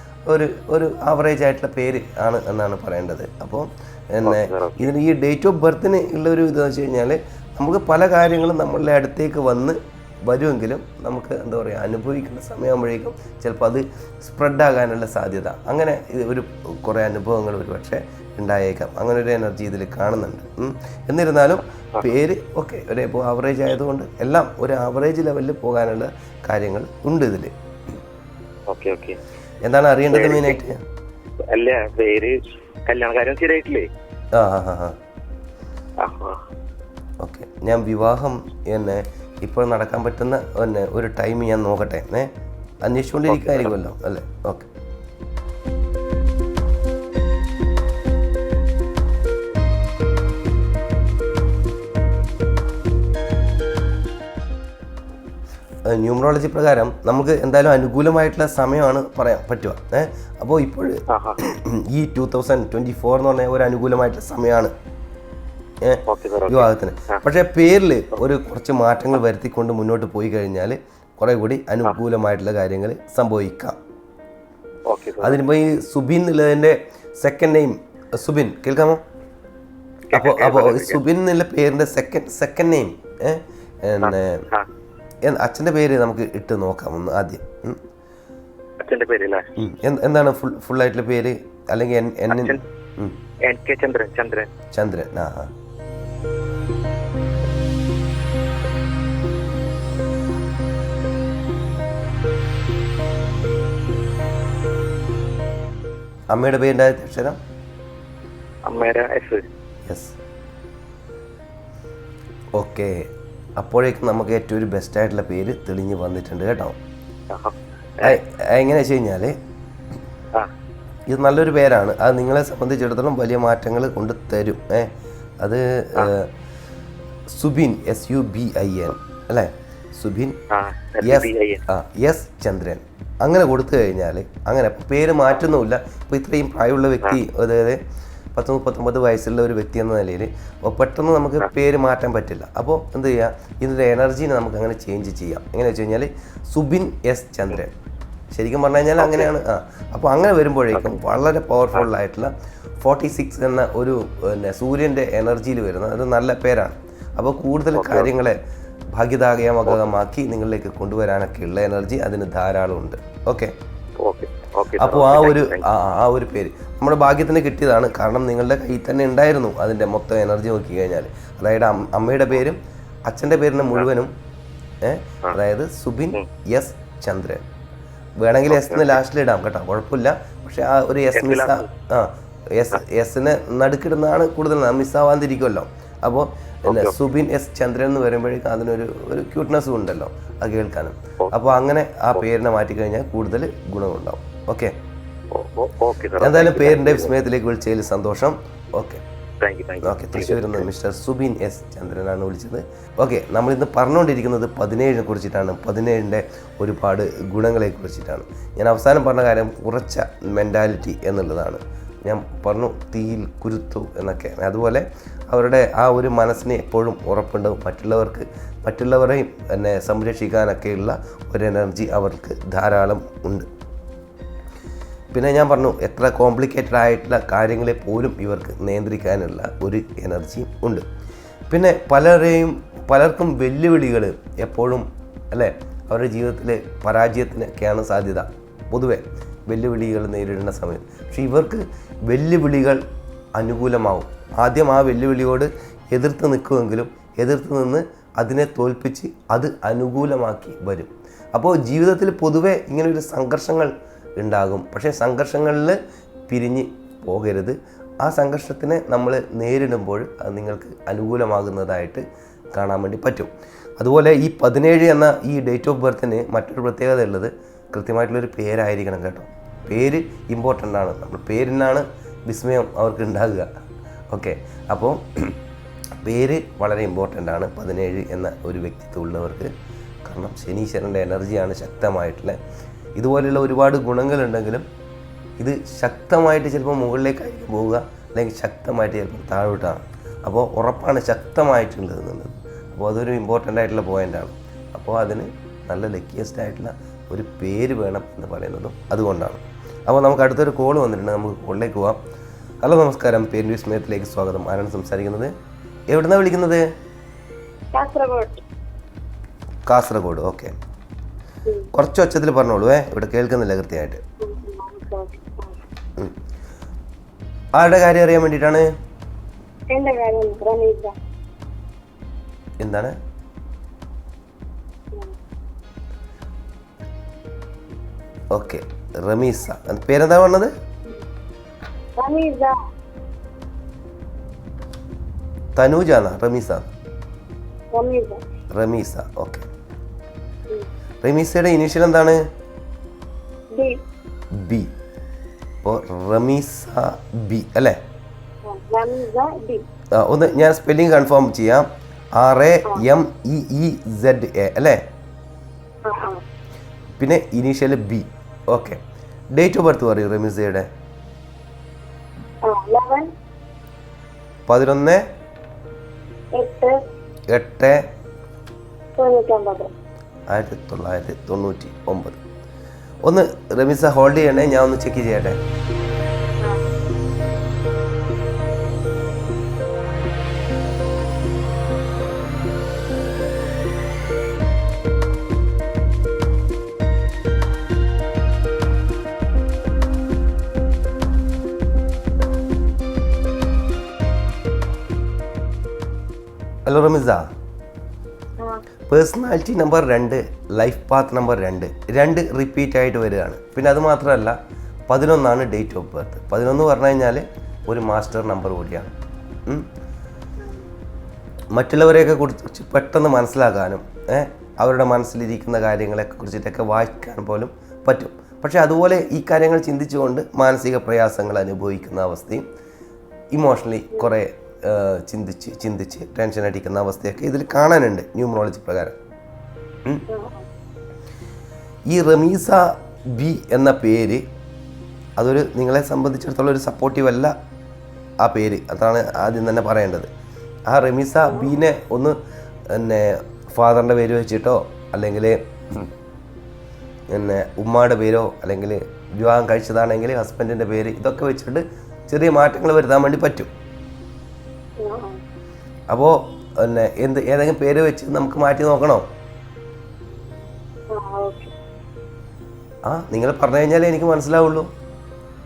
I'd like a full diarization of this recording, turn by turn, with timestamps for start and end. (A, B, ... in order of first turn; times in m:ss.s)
0:00.2-0:27.5 A
0:04.2-0:04.9 B
0:28.7-0:29.2 B
0:29.6-0:30.8 A
0:30.1-0:30.6 B
0:31.5-0:32.4 B
0:32.9-0:33.9 B
0:34.3-0:35.0 A
0:36.0-0:36.4 B
0:37.2-0:42.3 A
0:42.8-0:44.7 A
0:43.3-0:43.7 B
0:55.8-1:04.7 A
1:01.1-1:01.4 B
1:05.8-1:13.8 A
1:06.1-1:07.2 B
1:14.9-1:15.4 B
1:15.2-1:19.0 A
1:20.1-1:21.0 B
1:20.1-1:24.4 A
1:24.0-1:24.7 B
1:25.2-1:27.8 A
1:28.8-1:29.6 B
1:29.6-1:33.2 A
1:32.3-1:32.6 B
1:33.4-1:34.5 B
1:34.7-1:35.5 A
1:46.3-1:47.4 A
1:48.6-1:49.4 B
1:49.8-1:50.2 A
1:52.5-1:56.8 A
1:57.3-1:58.2 B
1:58.0-1:59.3 A
2:01.1-2:06.3 A
2:07.3-2:10.4 A
2:10.5-2:11.6 B
2:11.0-2:17.8 A
2:18.3-2:27.7 A
2:28.3-2:38.4 A
2:29.0-2:29.3 B
2:37.8-2:38.1 B
2:38.9-2:43.5 A
2:44.0-2:45.7 B
2:44.8-2:54.1 A
2:54.8-2:57.4 A
2:58.2-3:14.8 A
2:58.5-2:59.0 B
3:01.1-3:01.7 B
3:06.7-3:06.9 B
3:15.3-3:17.1 B
3:16.2-3:19.0 A
3:19.4-3:20.6 B
3:19.8-3:43.5 A
3:45.1-3:50.9 A
3:51.5-4:02.8 A
4:03.4-4:15.8 A
4:16.3-4:22.0 A
4:22.6-4:33.5 A
4:34.1-4:35.4 A
4:36.0-4:39.5 A
4:40.0-4:42.4 A
4:43.0-4:44.6 A
4:45.4-5:02.0 A
5:02.6-5:05.3 A
5:05.9-5:06.6 A
5:07.7-5:08.4 C
5:09.7-5:10.5 A
5:11.4-5:11.7 C
5:11.7-5:14.0 A
5:14.2-5:15.6 C
5:17.6-5:18.7 A
5:19.7-5:20.9 C
5:22.6-5:22.9 A
5:28.3-5:30.5 A
5:32.0-5:32.6 C
5:35.6-5:36.7 A
5:37.7-5:38.2 C
5:38.6-5:39.5 A
5:41.0-5:42.2 A
5:43.5-5:43.8 C
5:44.3-5:44.7 A
5:45.6-5:47.8 A
5:48.4-5:49.6 C
5:49.9-5:54.8 A
5:55.8-5:56.2 C
5:57.0-5:58.8 A
5:59.3-6:00.7 A
6:02.4-6:03.1 C
6:04.5-6:05.0 A
6:06.4-6:06.7 C
6:07.3-6:07.9 A
6:09.0-6:09.7 C
6:10.3-6:12.2 A
6:13.0-6:15.4 A
6:36.6-6:37.3 A
6:38.9-6:44.4 A
6:44.9-6:48.9 A
6:51.6-7:02.4 A
7:03.3-7:09.0 A
7:10.1-7:10.4 C
7:11.9-7:14.2 A
7:15.2-7:17.3 A
7:18.2-7:20.1 A
7:20.7-7:22.2 A
7:22.7-7:25.9 A
7:27.1-7:33.5 A
7:34.8-7:35.2 C
7:35.9-7:39.1 A
7:40.9-7:41.5 C
7:42.8-7:44.7 A